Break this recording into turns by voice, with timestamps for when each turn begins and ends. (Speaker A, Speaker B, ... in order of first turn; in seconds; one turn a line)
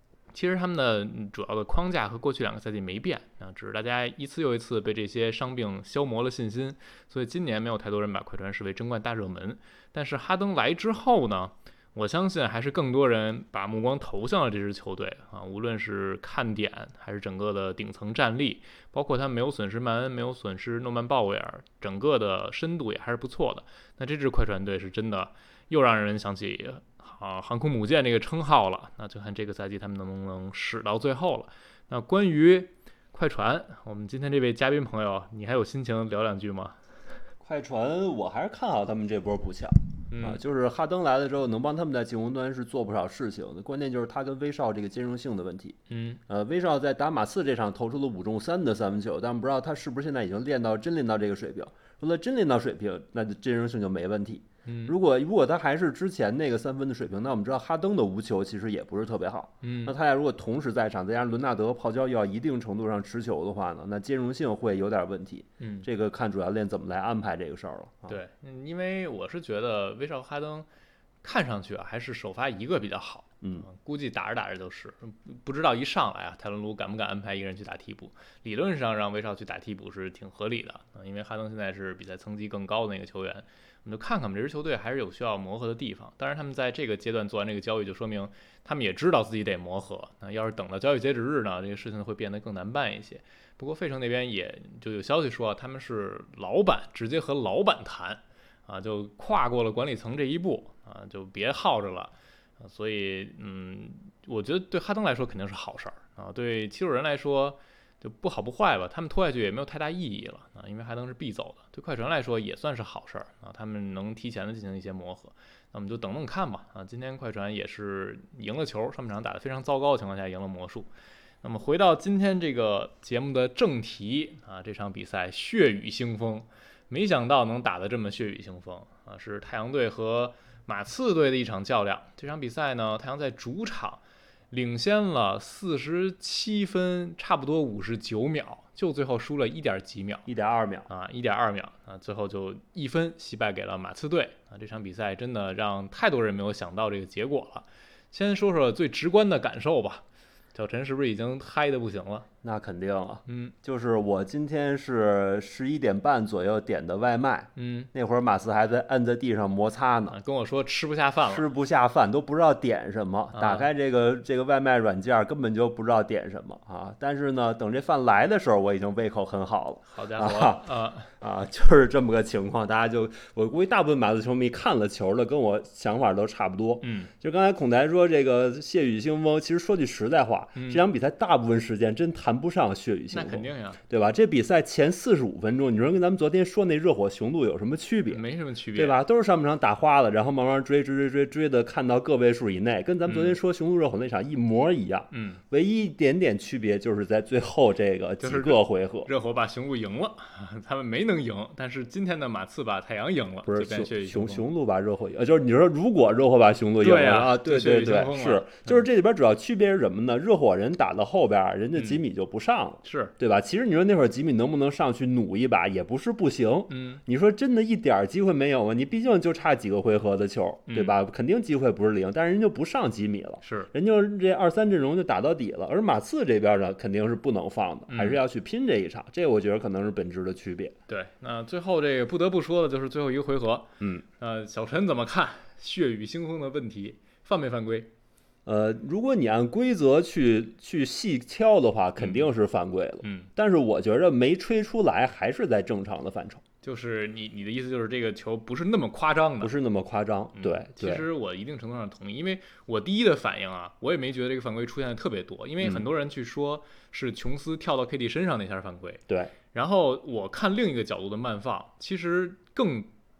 Speaker A: 0.3-36.8
Speaker B: 37.4-68.2
Speaker A: 40.1-40.4
Speaker A: 45.9-46.2
Speaker A: 54.6-54.9
Speaker A: 59.6-59.9
Speaker A: 65.6-65.9
Speaker A: 68.1-70.7
Speaker A: 71.2-120.9
Speaker A: 121.4-140.3
Speaker B: 140.3-140.9
Speaker A: 140.9-152.2
Speaker B: 152.4-160.2
Speaker A: 153.3-153.5
Speaker A: 157.6-157.9
Speaker A: 160.1-161.5
Speaker B: 161.3-170.6
Speaker A: 163.3-163.7
Speaker A: 169.9-171.1
Speaker B: 171.2-188.2
Speaker A: 176.8-177.1
Speaker A: 180.6-180.8
Speaker A: 183.1-183.8
Speaker A: 188.1-189.0
Speaker B: 188.7-199.1
Speaker A: 193.1-193.4
Speaker A: 195.1-195.4
Speaker A: 198.2-204.5
Speaker B: 203.4-230.7
Speaker A: 206.8-208.8
Speaker A: 211.8-212.0
Speaker A: 212.8-213.1
Speaker A: 216.7-217.0
Speaker A: 220.7-220.9
Speaker A: 223.4-223.7
Speaker A: 227.9-228.2
Speaker A: 230.9-237.9
Speaker B: 238.4-246.4
Speaker A: 242.0-242.3
Speaker A: 243.0-243.3
Speaker A: 246.6-249.5
Speaker B: 249.4-251.1
Speaker A: 250.3-262.9